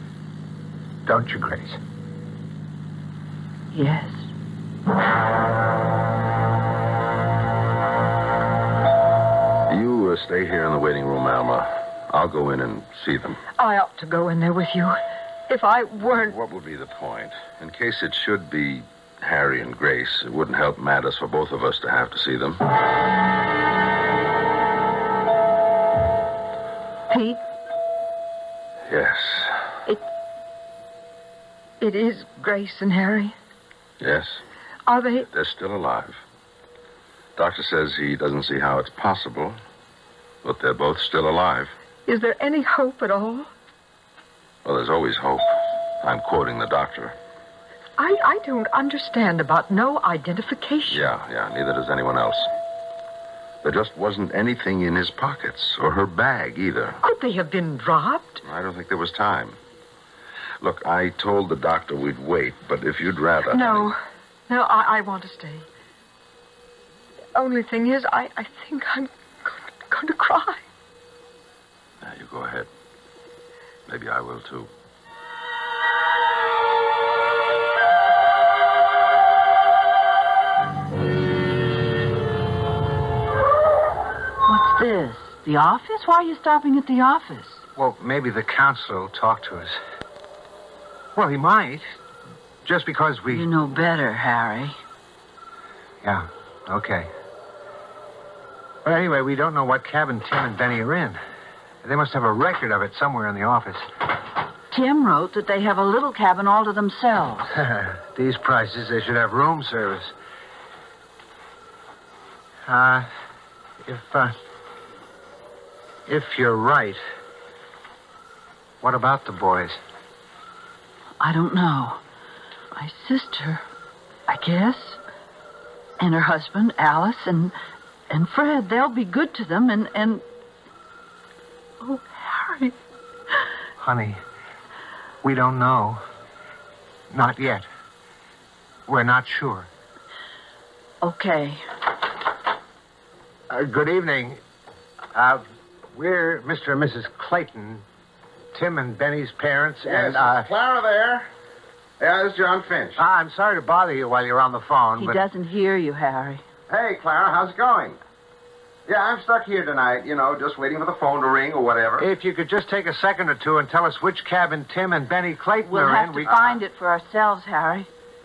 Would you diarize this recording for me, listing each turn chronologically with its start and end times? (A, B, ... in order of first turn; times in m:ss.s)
0:01.0-0:01.8 A
0:03.7-0:04.3 B
0:09.7-0:13.4 C
0:13.6-0:15.0 D
0:15.5-0:16.4 D
0:16.1-0:22.6 C
0:27.1-0:27.4 D
0:28.9-0:29.6 C
0:31.8-0:33.3 D
0:34.0-0:34.4 C
0:34.9-0:35.3 D
0:35.3-0:36.2 C
0:37.4-0:39.6 C
0:40.4-0:41.7 C
0:42.1-0:43.5 D
0:44.6-0:47.1 C
0:48.0-0:51.1 D
0:50.9-0:52.5 C
0:53.6-0:57.0 C
0:57.0-0:58.4 D
0:58.4-0:59.6 C
1:00.6-1:03.9 C
1:03.5-1:04.0 D
1:04.5-1:05.7 D
1:07.3-1:10.6 D
1:12.0-1:12.7 C
1:13.9-1:14.7 C
1:24.5-1:27.6 B
1:27.8-1:29.8 A
1:31.1-1:32.0 A
1:32.6-1:33.5 A
1:33.3-1:34.8 B
1:36.0-1:37.1 A
1:38.8-1:41.2 A
1:41.8-1:43.9 A
1:44.7-1:47.6 B
1:47.5-1:50.1 A
1:52.6-1:53.1 A
1:53.8-1:54.4 A
1:56.1-1:57.0 A
1:58.8-1:59.8 A
2:01.2-2:02.0 B
2:02.7-2:03.6 B
2:04.3-2:05.0 B
2:06.0-2:07.5 B
2:08.1-2:10.2 B
2:11.8-2:12.7 B
2:13.8-2:14.2 A
2:15.2-2:16.0 A
2:17.1-2:17.6 A
2:18.9-2:19.7 A
2:21.0-2:21.6 B
2:23.5-2:24.4 A
2:25.1-2:27.8 A
2:28.5-2:30.5 A
2:29.8-2:31.3 C
2:32.0-2:33.0 C
2:33.0-2:35.2 A
2:35.0-2:36.4 B
2:36.7-2:38.0 C
2:38.9-2:42.0 C
2:42.0-2:46.4 A
2:45.6-2:47.9 B
2:46.3-2:46.6 C